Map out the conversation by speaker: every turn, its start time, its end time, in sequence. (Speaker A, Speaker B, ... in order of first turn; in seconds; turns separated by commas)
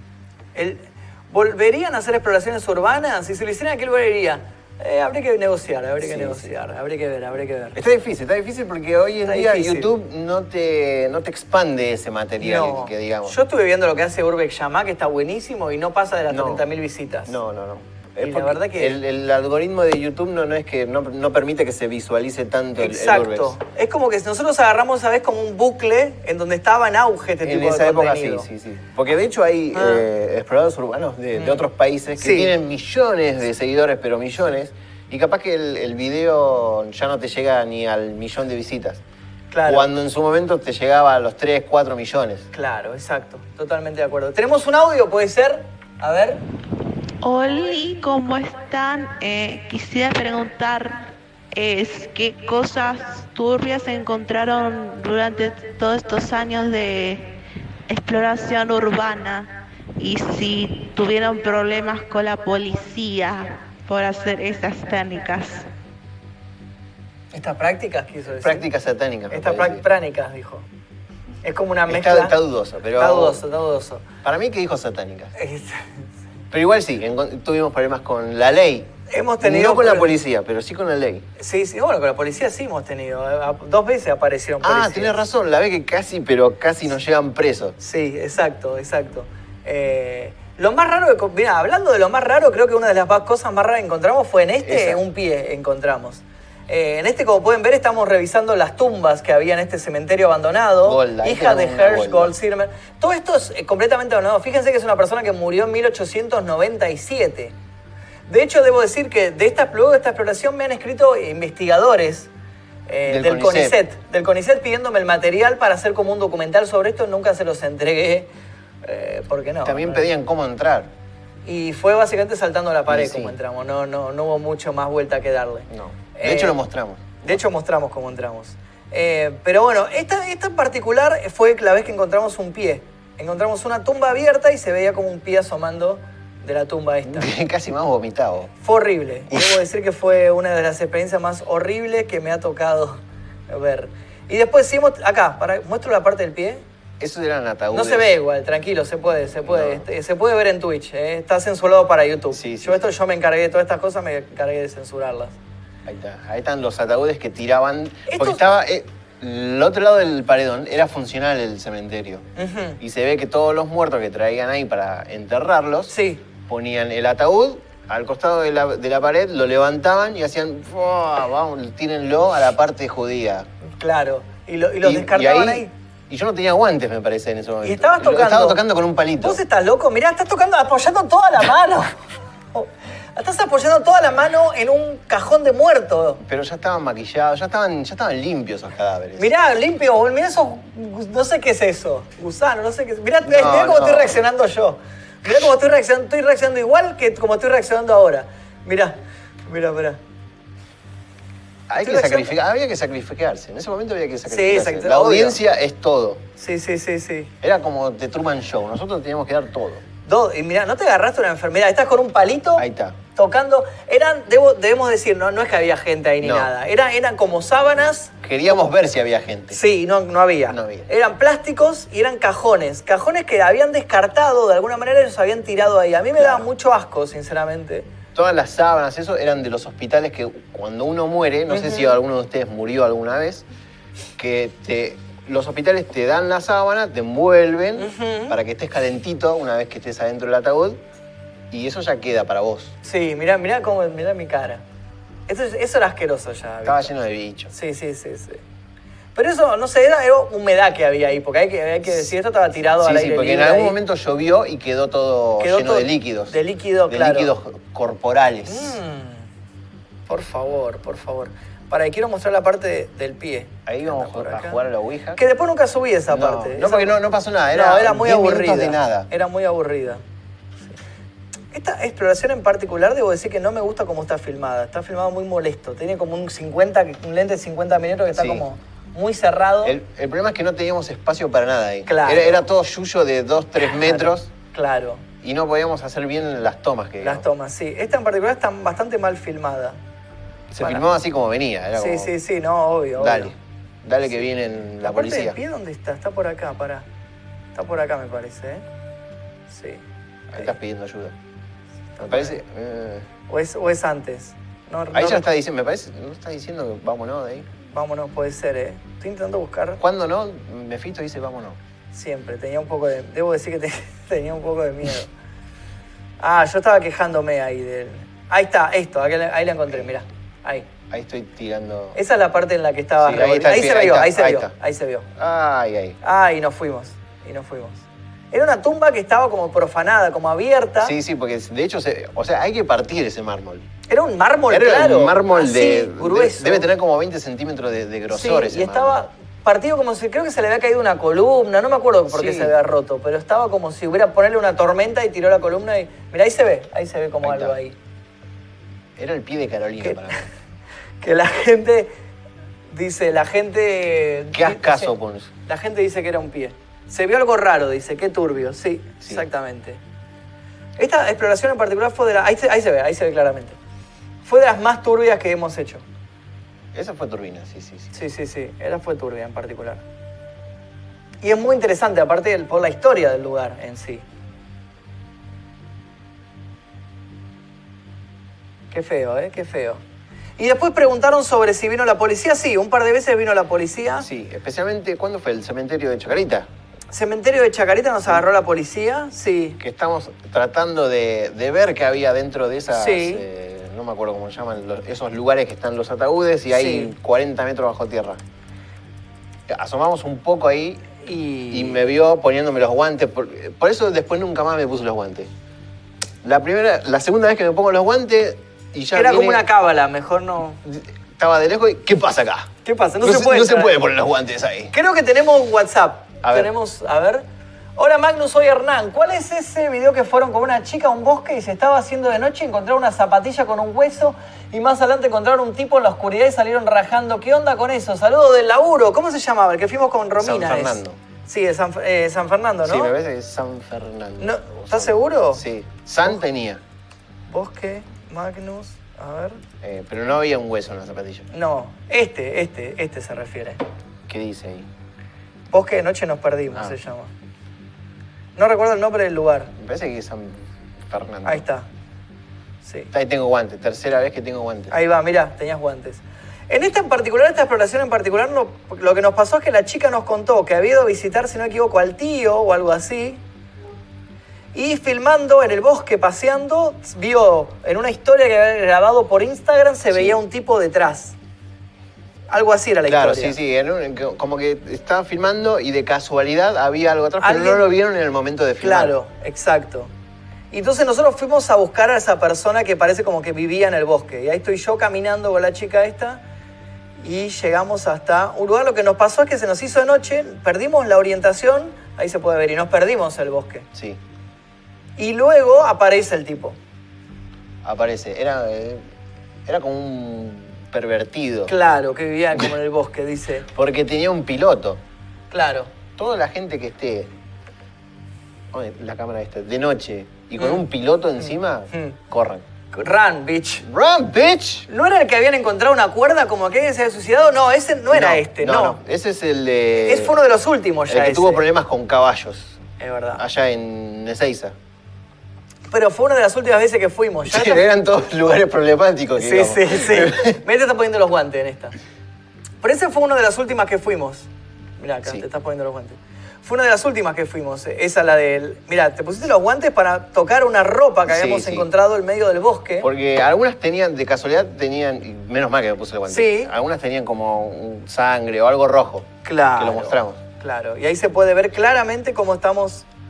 Speaker A: 0.5-7.8, Speaker B: 6.0-6.5, Speaker B: 7.8-13.4, Speaker A: 9.2-9.9, Speaker A: 12.4-17.4, Speaker B: 16.3-16.7, Speaker B: 17.3-23.6, Speaker A: 18.2-19.0, Speaker A: 22.8-28.5, Speaker B: 27.4-39.0, Speaker A: 29.7-30.1, Speaker A: 31.4-31.6, Speaker A: 32.2-32.5, Speaker A: 39.5-39.9, Speaker B: 39.6-42.5, Speaker A: 42.5-46.5, Speaker C: 47.2-65.7, Speaker A: 67.3-68.7, Speaker B: 68.4-69.8, Speaker A: 69.3-70.7, Speaker A: 71.4-72.4, Speaker B: 71.9-73.4, Speaker A: 73.0-74.1, Speaker B: 74.2-75.3, Speaker A: 75.3-76.1, Speaker B: 76.5-81.2, Speaker A: 79.1-80.2, Speaker A: 81.4-85.1, Speaker B: 84.6-87.8, Speaker A: 87.8-107.5, Speaker B: 94.6-95.0, Speaker B: 100.8-102.3, Speaker A: 108.3-112.3, Speaker A: 112.9-118.3, Speaker B: 113.1-113.8, Speaker A: 118.8-120.1, Speaker B: 119.6-120.9, Speaker A: 121.5-126.6, Speaker B: 122.9-123.4, Speaker B: 125.7-127.4, Speaker A: 127.2-137.3, Speaker B: 137.1-138.5, Speaker A: 138.6-146.6, Speaker B: 147.0-148.2, Speaker A: 147.7-155.4, Speaker B: 149.4-149.9, Speaker B: 152.3-152.8, Speaker B: 155.9-162.3, Speaker A: 158.1-158.4, Speaker A: 162.4-162.8, Speaker B: 162.8-173.5, Speaker A: 165.9-166.2, Speaker A: 173.8-175.7, Speaker B: 174.8-179.4, Speaker A: 177.6-178.6, Speaker A: 179.2-186.2, Speaker B: 186.2-189.3, Speaker A: 189.2-200.0, Speaker B: 193.2-194.2, Speaker B: 201.7-206.3, Speaker A: 201.8-202.3, Speaker A: 204.3-205.4, Speaker A: 206.4-207.3, Speaker B: 207.4-209.8, Speaker A: 210.1-218.2, Speaker B: 212.6-213.0, Speaker B: 216.2-216.5, Speaker B: 218.2-219.6, Speaker A: 219.5-227.9, Speaker B: 220.5-220.9, Speaker B: 226.2-226.5, Speaker B: 228.1-233.4, Speaker A: 231.5-232.0, Speaker B: 234.2-240.8, Speaker A: 237.8-238.4, Speaker B: 241.5-242.8, Speaker A: 242.8-244.6, Speaker A: 245.3-246.9, Speaker B: 246.7-247.5, Speaker A: 247.5-248.4, Speaker A: 249.2-253.8, Speaker B: 252.8-256.4, Speaker A: 255.4-257.3, Speaker B: 256.9-258.8, Speaker A: 258.5-259.3, Speaker A: 260.1-264.6, Speaker B: 263.7-265.2, Speaker A: 265.2-267.0, Speaker B: 266.1-269.1, Speaker A: 267.5-270.0, Speaker A: 271.5-279.8, Speaker B: 278.1-278.4, Speaker B: 279.6-284.3, Speaker A: 281.9-282.4, Speaker A: 283.6-285.1, Speaker B: 285.2-287.2, Speaker A: 287.0-289.8, Speaker B: 290.5-292.1, Speaker A: 291.8-293.4, Speaker B: 293.0-295.4, Speaker A: 294.8-296.9, Speaker A: 297.6-298.7, Speaker A: 299.5-300.5, Speaker B: 300.3-301.1, Speaker A: 302.0-302.4, Speaker B: 302.0-303.1, Speaker A: 303.3-305.3, Speaker B: 304.9-307.5, Speaker A: 307.7-309.8, Speaker B: 309.8-311.6, Speaker A: 311.9-315.1, Speaker A: 316.2-320.7, Speaker B: 320.9-322.0, Speaker A: 321.9-325.1, Speaker B: 323.0-324.5, Speaker B: 325.2-326.0, Speaker A: 326.0-330.9, Speaker B: 330.8-333.7, Speaker A: 333.9-336.7, Speaker B: 334.5-339.0, Speaker A: 338.1-347.8, Speaker B: 342.1-342.6, Speaker B: 347.2-347.6, Speaker B: 349.0-350.3, Speaker A: 349.8-350.2, Speaker A: 351.0-351.9, Speaker A: 352.7-354.9, Speaker B: 354.3-355.3, Speaker A: 355.5-359.8, Speaker A: 360.8-363.6, Speaker A: 364.2-365.8, Speaker B: 366.7-367.9, Speaker A: 367.9-369.8, Speaker A: 371.2-374.1, Speaker A: 378.7-379.8, Speaker A: 380.4-384.1, Speaker B: 384.0-386.5, Speaker A: 386.9-389.6, Speaker B: 389.6-398.2, Speaker A: 392.7-393.2, Speaker A: 396.5-396.9, Speaker B: 399.5-400.9, Speaker A: 401.0-401.9, Speaker B: 401.5-405.3, Speaker B: 406.2-409.5, Speaker A: 408.9-410.6, Speaker B: 410.6-412.5, Speaker A: 412.6-413.8, Speaker B: 413.0-414.7, Speaker A: 414.7-417.2, Speaker B: 416.2-416.5, Speaker A: 417.8-432.9, Speaker B: 430.2-431.0, Speaker B: 432.6-436.6, Speaker A: 434.2-435.4, Speaker A: 437.3-439.4, Speaker B: 439.6-441.3, Speaker A: 441.3-443.6, Speaker B: 444.1-444.7, Speaker A: 445.5-447.1, Speaker A: 448.4-449.5, Speaker B: 449.6-451.5, Speaker A: 451.2-451.7, Speaker A: 452.6-452.9, Speaker B: 452.9-454.8, Speaker A: 454.7-463.2, Speaker A: 464.5-471.2, Speaker B: 469.9-470.2, Speaker A: 472.3-473.4, Speaker B: 472.9-479.0, Speaker A: 477.2-477.7, Speaker A: 478.6-479.9, Speaker A: 480.5-486.2, Speaker A: 487.0-493.7, Speaker B: 493.7-494.0, Speaker A: 495.0-496.6, Speaker B: 497.6-498.8, Speaker B: 499.5-501.5, Speaker A: 501.5-503.5, Speaker B: 503.5-504.8, Speaker A: 505.3-505.7, Speaker B: 506.0-507.1, Speaker B: 508.5-512.5, Speaker A: 511.7-512.0, Speaker A: 512.7-513.6, Speaker B: 513.6-514.7, Speaker A: 514.7-518.8, Speaker B: 517.9-520.2, Speaker A: 519.8-521.5, Speaker B: 520.9-522.6, Speaker A: 522.8-523.2, Speaker B: 523.2-524.5, Speaker A: 525.7-527.6, Speaker B: 527.3-530.4, Speaker A: 529.2-531.8, Speaker A: 532.6-542.9, Speaker B: 541.1-541.7, Speaker B: 542.8-550.2, Speaker A: 546.1-546.5, Speaker A: 549.2-552.9